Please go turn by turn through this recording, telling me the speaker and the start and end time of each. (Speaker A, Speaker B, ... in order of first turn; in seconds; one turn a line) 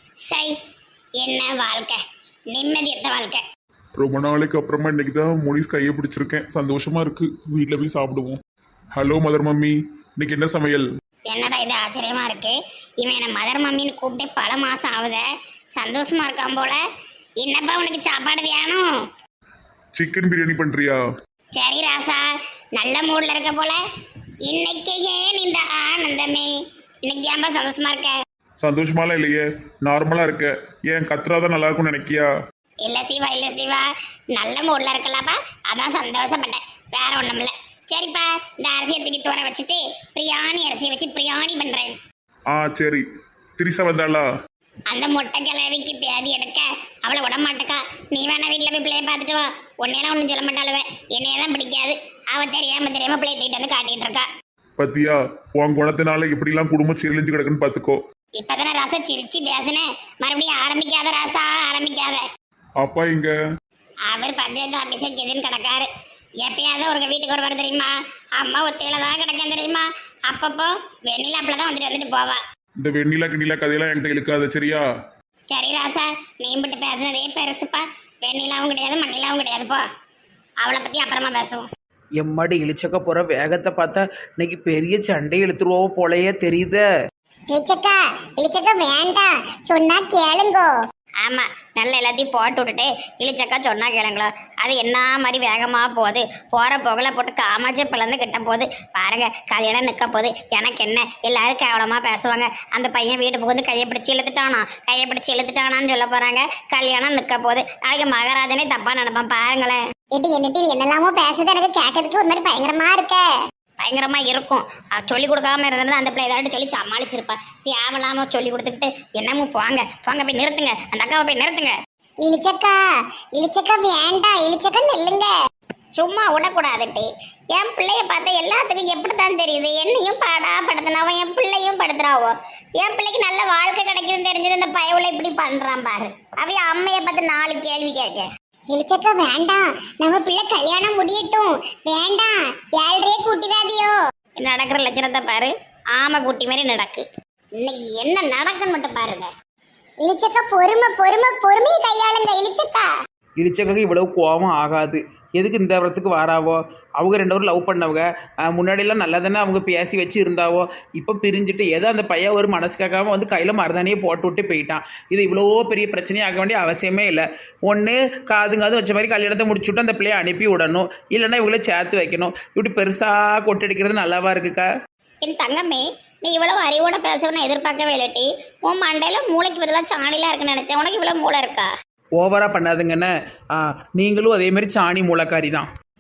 Speaker A: 0.3-0.5
Speaker A: 1.2-2.0
Speaker A: 2.5-3.4
Speaker B: 4.0-8.4
Speaker B: 8.9-10.9
Speaker A: 11.3-15.2
Speaker A: 15.8-16.8
Speaker A: 17.4-18.9
Speaker B: 19.9-21.0
Speaker A: 21.6-23.8
Speaker A: 24.4-26.5
Speaker A: 27.1-28.2
Speaker B: 28.6-32.3
Speaker A: 32.8-42.0
Speaker B: 42.5-43.0
Speaker B: 43.6-44.3
Speaker A: 44.9-54.3
Speaker B: 54.8-58.0
Speaker A: 58.4-62.2
Speaker B: 62.8-63.3
Speaker A: 64.1-65.9
Speaker A: 66.4-72.4
Speaker B: 72.8-74.8
Speaker A: 75.5-79.8
Speaker A: 80.6-81.7
Speaker C: 82.2-86.8
Speaker D: 87.5-90.7
Speaker A: 91.2-109.8
Speaker D: 110.2-113.2
Speaker A: 113.8-121.7
Speaker D: 122.2-122.8
Speaker D: 123.4-125.3
Speaker A: 126.0-138.3
Speaker D: 138.7-144.0
Speaker A: 144.4-147.1
Speaker A: 147.6-149.3
Speaker D: 150.0-152.9
Speaker C: 153.4-174.7
Speaker A: 175.2-181.7
Speaker C: 182.2-185.7